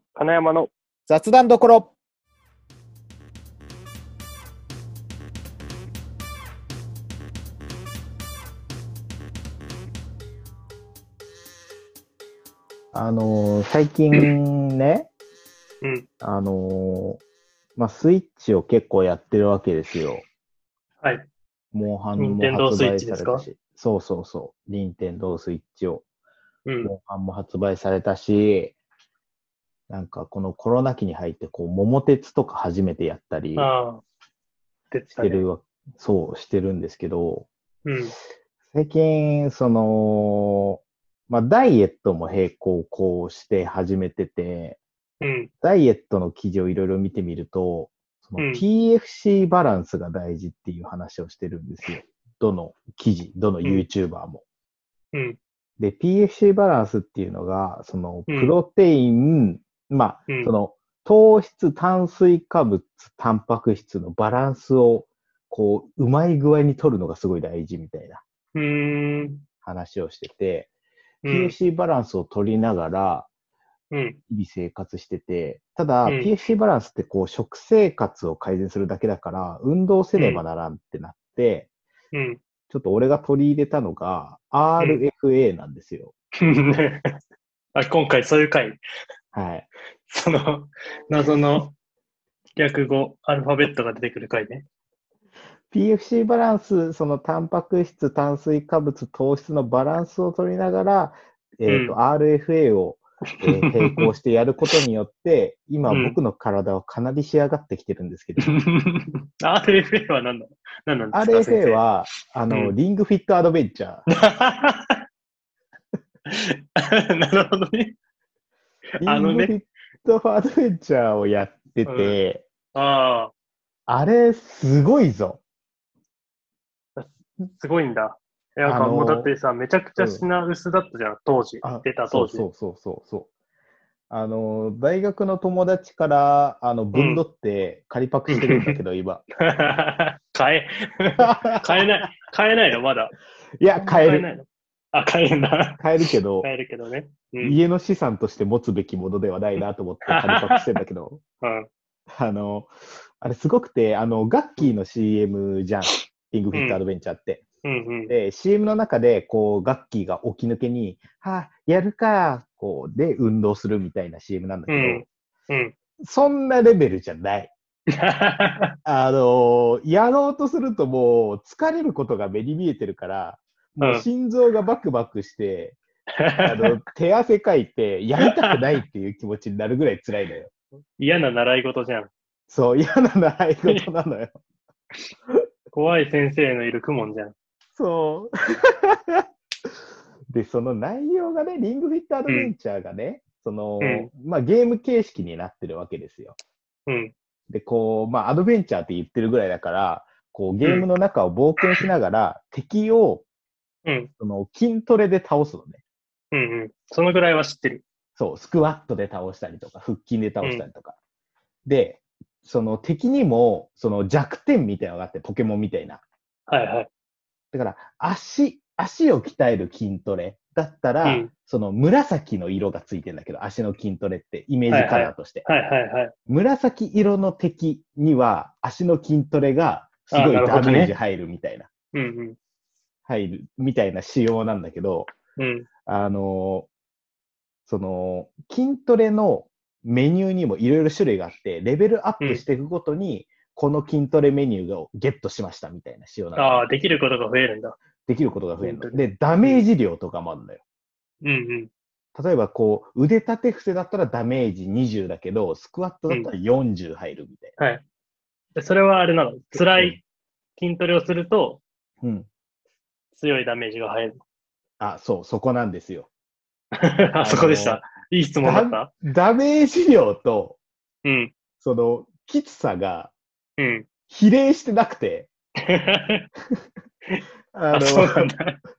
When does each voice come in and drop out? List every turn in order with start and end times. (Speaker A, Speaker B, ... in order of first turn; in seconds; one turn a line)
Speaker A: 0.1-0.7
Speaker B: 1.1-1.9
Speaker B: 12.9-15.1
Speaker B: 16.2-17.2
Speaker B: 17.8-20.2
Speaker A: 21.0-21.3
Speaker B: 21.7-26.0
Speaker A: 22.2-23.4
Speaker A: 26.6-26.9
Speaker B: 26.8-28.8
Speaker B: 29.9-33.7
Speaker A: 33.5-34.0
Speaker A: 34.9-35.5
Speaker B: 35.1-37.5
Speaker A: 37.8-38.1
Speaker B: 38.7-44.8
Speaker A: 45.2-45.5
Speaker B: 45.6-54.4
Speaker A: 48.4-48.6
Speaker A: 55.1-55.4
Speaker B: 55.8-68.2
Speaker A: 58.3-58.5
Speaker A: 68.5-69.4
Speaker B: 69.6-70.7
Speaker A: 71.2-71.5
Speaker B: 71.2-73.3
Speaker A: 73.9-74.2
Speaker B: 74.3-81.7
Speaker A: 76.0-76.3
Speaker A: 80.2-80.4
Speaker A: 82.1-82.4
Speaker B: 82.7-86.1
Speaker A: 84.8-85.0
Speaker A: 86.4-87.0
Speaker A: 87.7-88.8
Speaker B: 89.3-89.7
Speaker A: 90.1-91.7
Speaker A: 92.6-94.6
Speaker B: 95.7-108.5
Speaker A: 101.7-101.9
Speaker A: 103.6-104.1
Speaker A: 105.9-106.2
Speaker A: 108.5-111.8
Speaker B: 111.1-114.0
Speaker A: 114.2-114.9
Speaker A: 116.3-117.9
Speaker B: 119.0-122.4
Speaker A: 119.0-119.5
Speaker A: 121.8-122.2
Speaker A: 122.7-123.3
Speaker B: 123.9-125.4
Speaker A: 127.0-132.5
Speaker B: 128.6-129.3
Speaker B: 130.0-130.2
Speaker B: 131.6-133.3
Speaker B: 134.1-139.2
Speaker A: 136.9-137.2
Speaker A: 138.3-138.8
Speaker A: 139.4-143.1
Speaker B: 141.2-142.0
Speaker B: 143.6-144.3
Speaker A: 143.7-147.6
Speaker B: 145.8-146.5
Speaker B: 147.4-151.2
Speaker A: 150.0-150.6
Speaker A: 151.4-151.7
Speaker B: 152.1-157.4
Speaker A: 156.5-156.8
Speaker A: 157.6-158.1
Speaker B: 158.1-165.1
Speaker A: 164.7-165.7
Speaker B: 166.0-167.5
Speaker A: 168.0-168.7
Speaker B: 168.8-175.8
Speaker A: 173.8-174.1
Speaker A: 176.2-176.7
Speaker B: 176.4-180.5
Speaker A: 178.2-178.5
Speaker A: 181.0-182.1
Speaker B: 182.5-184.4
Speaker A: 185.7-187.3
Speaker B: 187.7-189.2
Speaker B: 190.3-196.4
Speaker A: 193.8-194.1
Speaker A: 196.9-197.1
Speaker B: 197.5-203.2
Speaker A: 200.6-200.9
Speaker A: 203.8-204.1
Speaker B: 204.2-205.8
Speaker A: 206.3-207.8
Speaker B: 208.2-210.9
Speaker B: 211.7-216.0
Speaker A: 216.5-216.9
Speaker B: 217.5-225.4
Speaker A: 221.0-221.3
Speaker A: 224.7-226.1
Speaker B: 226.3-231.7
Speaker A: 230.1-230.9
Speaker A: 231.9-232.3
Speaker B: 233.1-235.1
Speaker A: 235.4-235.7
Speaker B: 235.8-236.7
Speaker B: 237.7-246.7
Speaker A: 246.3-247.8
Speaker B: 248.1-250.6
Speaker A: 248.6-249.6
Speaker A: 251.2-251.7
Speaker B: 252.2-257.6
Speaker A: 257.6-257.8
Speaker A: 258.6-260.0
Speaker B: 259.5-260.0
Speaker A: 260.6-261.6
Speaker B: 262.0-262.3
Speaker A: 263.1-264.2
Speaker B: 264.8-266.1
Speaker A: 266.8-268.9
Speaker B: 267.2-267.8
Speaker B: 268.4-270.6
Speaker A: 271.0-271.3
Speaker B: 271.6-273.1
Speaker A: 273.6-273.9
Speaker B: 274.1-275.3
Speaker A: 275.7-276.2
Speaker A: 277.1-278.6
Speaker B: 277.5-278.3